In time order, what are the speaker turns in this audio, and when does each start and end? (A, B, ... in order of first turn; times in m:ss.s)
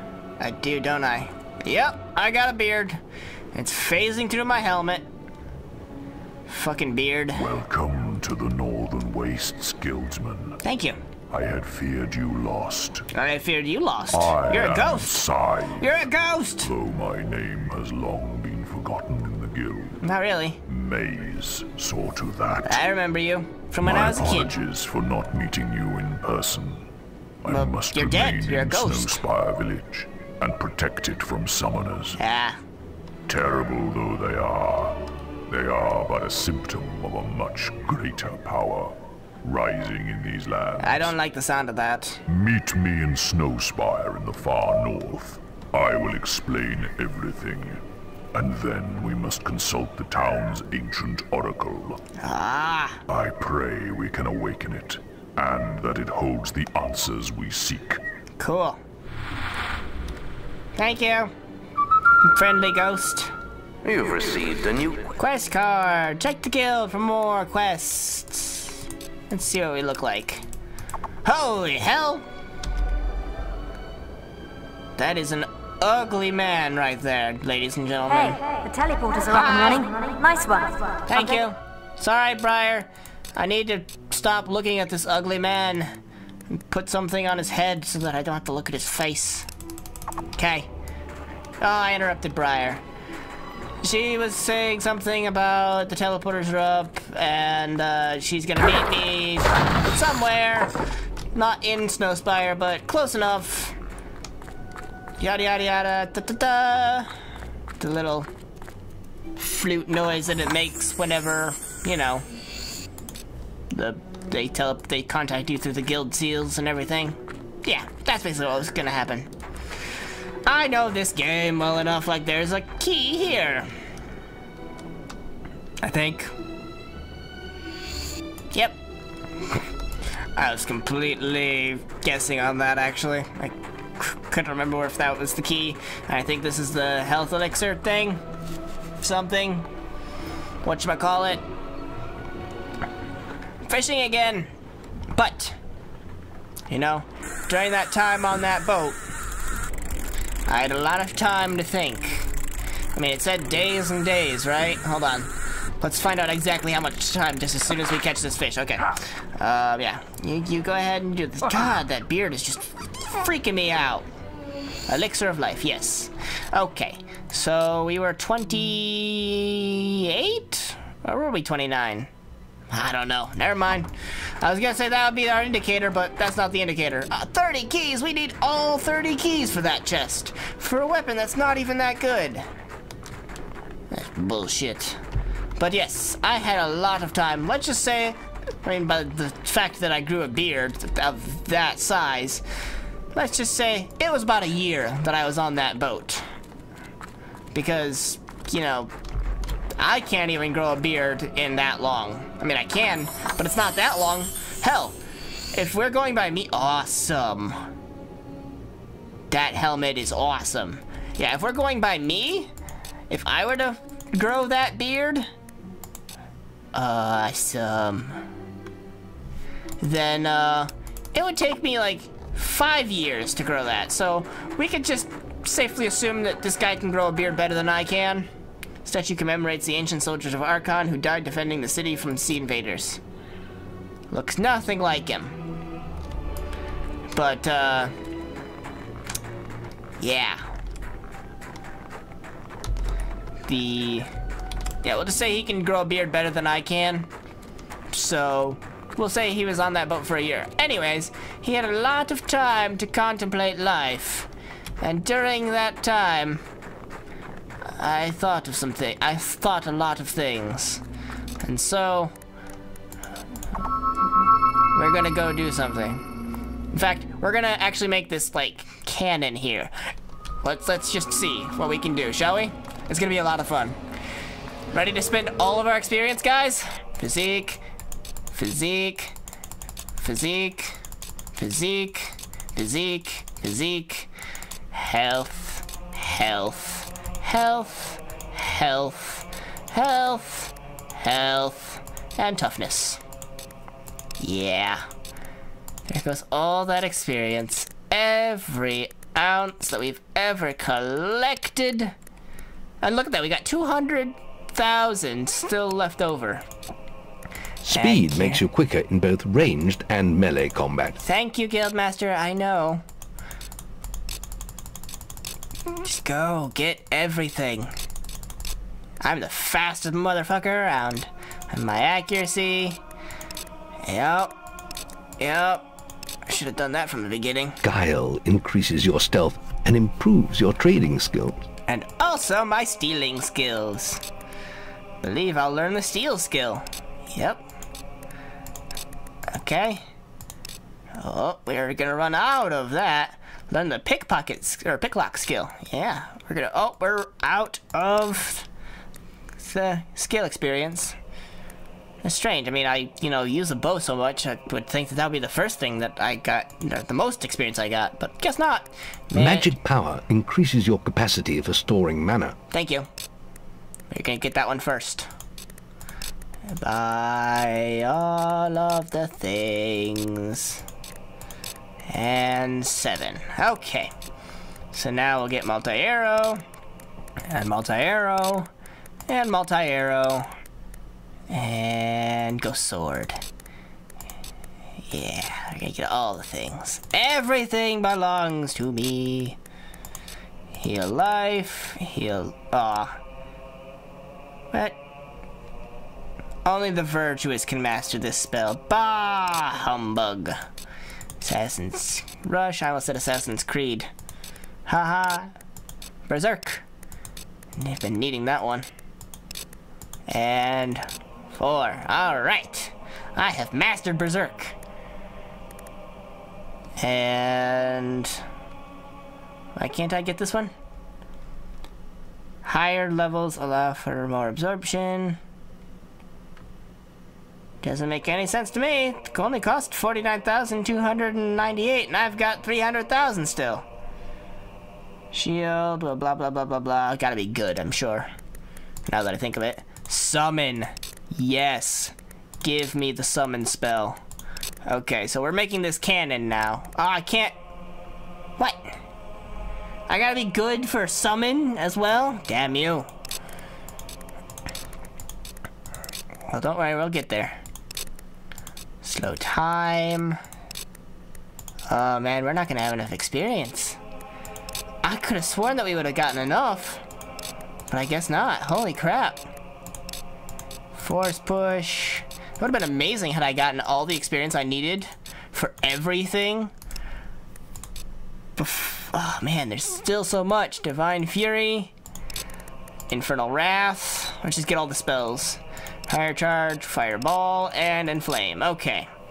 0:00.4-0:03.0 A
0:03.5-0:05.1 A
0:06.5-0:07.5 A
0:07.4-0:10.6 B
0:10.6-0:11.0 A
0:11.3-0:13.1 B
0:13.1-0:15.3 A
0:14.1-0:15.9 B
0:15.8-0:16.7 A
0:16.6-0:20.0 B
0:20.0-0:20.6 A
0:20.7-0:22.8 B
0:22.6-0:24.5 A
0:23.8-0:26.9 B
0:27.4-0:32.2 B
0:27.5-0:29.2 A
0:32.2-0:32.6 A
0:33.3-0:35.0 B
0:35.5-0:41.1 B
0:40.8-0:42.2 A
0:42.3-0:52.0 B
0:52.2-0:53.0 A
0:53.1-0:58.0 B
0:58.4-0:58.8 A
1:00.8-1:01.3 A
1:02.2-1:03.3 A
1:03.8-1:05.0 C
1:05.2-1:08.7 A
1:09.3-1:10.4 A
1:11.2-1:12.3 A
1:15.0-1:18.4 A
1:18.1-1:21.3 D
1:19.3-1:19.9 A
1:21.1-1:25.9 A
1:26.5-1:29.5 A
1:30.4-1:30.7 A
1:31.6-1:32.8 A
1:33.8-1:40.7 A
1:41.4-1:43.8 A
1:45.2-1:47.1 A
1:47.8-1:48.3 A
1:49.4-1:52.2 A
1:53.7-1:59.3 A
2:00.5-2:03.7 A
2:05.8-2:06.3 A
2:10.4-2:18.2 A
2:19.0-2:19.7 A
2:20.6-2:21.4 A
2:23.7-2:24.5 A
2:25.2-2:25.6 A
2:26.7-2:29.0 A
2:30.5-2:32.3 A
2:32.9-2:44.1 A
2:44.9-2:52.1 A
2:52.7-3:02.5 A
3:03.9-3:05.0 A
3:05.6-3:12.4 A
3:13.1-3:16.2 A
3:17.5-3:18.9 A
3:19.8-3:25.0 A
3:25.5-3:27.6 A
3:29.3-3:32.5 A
3:33.1-3:35.3 A
3:36.7-3:38.2 A
3:39.8-3:48.3 A
3:48.8-3:53.0 A
3:54.1-3:55.4 A
3:57.1-3:57.9 A
4:00.0-4:00.4 A
4:03.5-4:04.1 A
4:04.8-4:07.1 A
4:07.9-4:14.3 A
4:14.8-4:16.4 A
4:17.7-4:20.8 A
4:21.4-4:22.1 A
4:24.7-4:26.0 A
4:26.7-4:29.7 A
4:30.4-4:33.8 A
4:34.7-4:37.6 A
4:38.3-4:39.2 A
4:40.0-4:40.8 A
4:41.4-4:44.1 A
4:44.7-4:53.0 A
4:54.2-4:54.8 A
4:55.9-5:01.9 A
5:02.8-5:06.4 A
5:07.6-5:11.0 C
5:07.7-5:08.4 A
5:11.0-5:12.8 A
5:15.7-5:17.7 A
5:19.0-5:22.8 A
5:23.9-5:24.4 A
5:25.2-5:25.6 A
5:26.3-5:27.6 A
5:27.6-5:31.4 C
5:31.7-5:34.0 A
5:35.0-5:37.4 A
5:39.3-5:39.8 A
5:41.0-5:48.5 A
5:49.4-5:50.9 A
5:52.0-5:59.5 A
5:59.1-6:02.4 C
6:02.5-6:02.9 A
6:03.9-6:05.1 A
6:06.5-6:10.6 A
6:11.9-6:13.9 A
6:14.7-6:16.4 A
6:17.3-6:18.5 A
6:19.1-6:20.3 A
6:21.3-6:23.2 A
6:24.9-6:29.4 A
6:30.6-6:33.0 A
6:34.5-6:34.8 A
6:36.4-6:40.4 A
6:41.2-6:43.9 A
6:44.7-6:45.3 A
6:46.1-6:46.6 A
6:47.6-6:48.7 A
6:50.1-6:54.6 A
6:56.8-6:58.2 A
6:59.6-7:00.5 A
7:02.4-7:05.2 A
7:07.6-7:13.6 A
7:15.1-7:18.1 A
7:18.9-7:24.0 A
7:24.7-7:27.4 A
7:29.9-7:32.9 A
7:36.3-7:37.4 A
7:38.8-7:40.2 A
7:41.7-7:43.8 A
7:44.8-7:46.8 A
7:47.7-7:49.2 A
7:50.8-7:56.5 A
7:58.4-8:01.7 A
8:02.9-8:08.9 A